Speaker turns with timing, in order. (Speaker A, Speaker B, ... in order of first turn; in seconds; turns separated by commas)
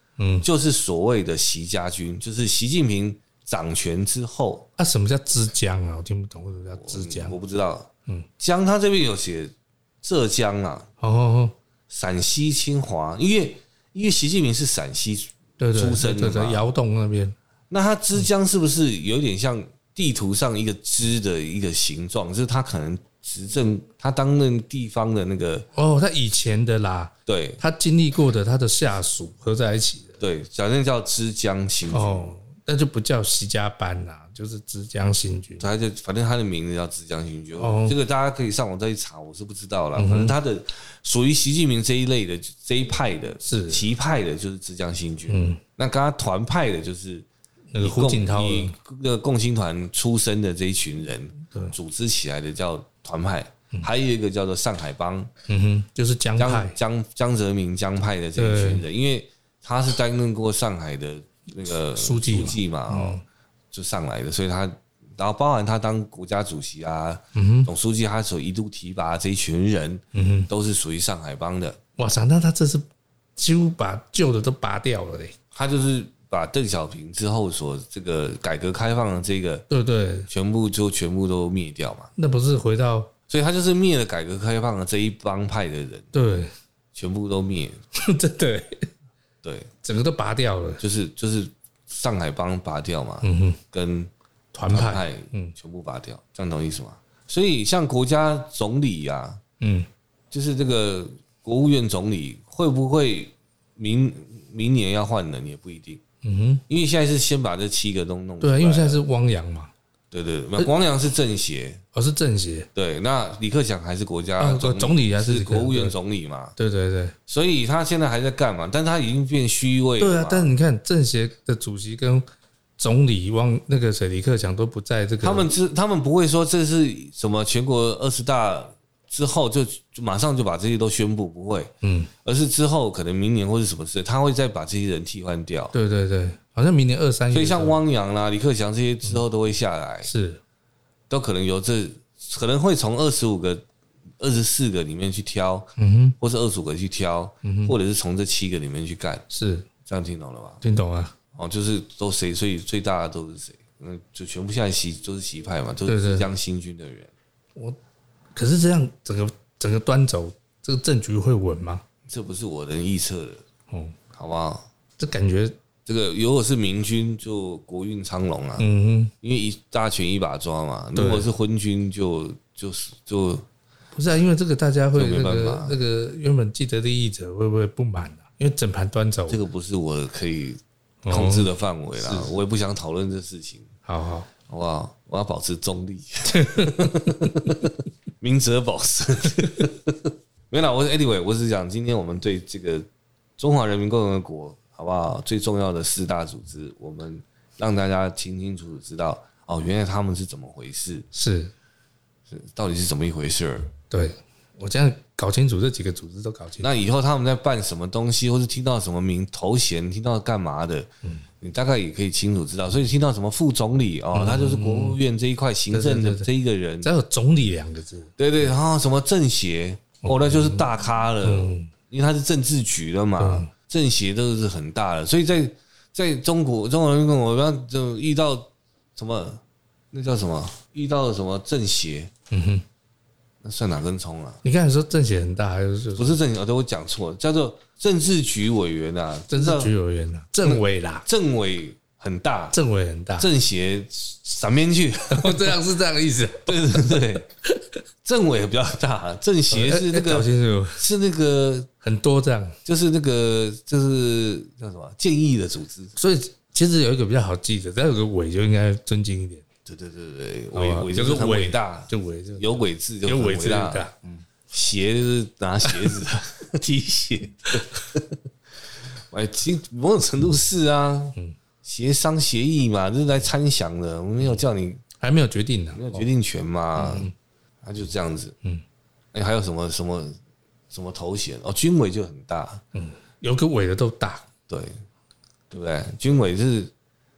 Speaker A: 0.2-0.5, Speaker B: 0.4-4.7, Speaker A: 4.8-7.3, Speaker B: 6.8-10.9, Speaker A: 11.0-11.5, Speaker B: 11.9-16.6, Speaker A: 15.6-17.4, Speaker B: 17.7-25.7, Speaker A: 25.7-30.2, Speaker B: 27.3-27.6, Speaker B: 30.2-32.3, Speaker A: 31.9-35.6, Speaker B: 35.6-47.2, Speaker A: 37.6-38.0, Speaker A: 40.0-40.3, Speaker A: 43.4-43.8, Speaker A: 45.3-45.6, Speaker A: 47.7-48.7, Speaker B: 47.8-55.3, Speaker A: 55.5-56.8, Speaker B: 56.4-71.8, Speaker A: 58.4-58.8, Speaker A: 61.9-63.2, Speaker A: 67.3-67.7, Speaker A: 70.1-70.5, Speaker A: 72.0-72.8, Speaker A: 73.4-75.3, Speaker B: 75.5-79.7, Speaker A: 79.7-80.3, Speaker B: 80.3-82.1, Speaker A: 82.2-83.1, Speaker B: 83.3-86.1, Speaker A: 86.1-86.5, Speaker B: 86.9-87.8, Speaker A: 88.0-88.9, Speaker B: 89.4-89.7, Speaker A: 89.8-90.8, Speaker B: 90.8-94.1, Speaker A: 93.2-93.6, Speaker A: 94.5-95.5, Speaker B: 94.7-99.4, Speaker A: 99.6-99.9, Speaker B: 100.3-106.0, Speaker A: 106.2-106.6, Speaker B: 106.7-109.0, Speaker A: 108.4-109.7, Speaker B: 110.1-111.8, Speaker A: 111.9-112.7, Speaker B: 112.7-116.5, Speaker A: 114.4-115.9, Speaker A: 116.6-117.2, Speaker B: 117.3-120.5, Speaker A: 120.0-122.2, Speaker A: 122.8-125.5, Speaker B: 125.2-131.7, Speaker A: 131.8-132.1, Speaker B: 132.2-135.7, Speaker A: 135.7-137.8, Speaker B: 137.3-140.1, Speaker A: 140.0-140.4, Speaker B: 141.1-143.6, Speaker B: 144.2-149.2, Speaker A: 145.8-146.2, Speaker A: 147.4-147.7, Speaker A: 149.3-149.7, Speaker B: 149.8-150.6, Speaker A: 150.6-151.1, Speaker B: 151.3-157.1, Speaker A: 155.9-156.3, Speaker A: 158.3-161.8, Speaker B: 162.1-163.4, Speaker A: 163.7-163.9, Speaker B: 164.1-164.6, Speaker A: 165.0-165.5, Speaker B: 165.8-168.7, Speaker A: 168.6-169.1, Speaker B: 169.2-173.4, Speaker A: 170.9-171.3, Speaker A: 173.9-179.4, Speaker B: 174.9-175.8, Speaker B: 179.3-183.7, Speaker A: 181.0-182.3, Speaker A: 183.8-184.3, Speaker B: 184.5-192.9, Speaker A: 186.3-187.3, Speaker B: 193.4-201.1, Speaker A: 201.1-201.5, Speaker B: 202.3-203.7, Speaker A: 203.9-206.7, Speaker B: 206.6-210.9, Speaker B: 211.4-216.9, Speaker A: 214.1-215.0, Speaker A: 215.7-216.3, Speaker A: 216.8-218.1, Speaker B: 218.2-232.1, Speaker A: 220.0-220.7, Speaker A: 221.2-221.7, Speaker A: 223.2-223.5, Speaker A: 232.3-232.6, Speaker B: 233.4-234.4, Speaker A: 234.4-236.2, Speaker B: 235.9-239.7, Speaker A: 239.3-241.1, Speaker B: 240.4-242.6, Speaker A: 242.5-243.3, Speaker B: 243.2-245.6, Speaker A: 245.1-247.7, Speaker B: 246.4-247.3, Speaker B: 248.0-251.7, Speaker A: 249.5-250.8, Speaker A: 251.8-252.5, Speaker B: 252.6-255.9, Speaker A: 255.9-259.4, Speaker B: 259.6-268.2, Speaker A: 260.5-263.9, Speaker B: 269.1-274.8, Speaker A: 275.0-276.1, Speaker B: 275.7-277.1, Speaker A: 276.8-277.1, Speaker B: 277.6-278.3, Speaker B: 279.1-280.2, Speaker B: 280.7-282.6, Speaker A: 282.7-284.2, Speaker B: 284.5-284.8, Speaker B: 285.5-286.7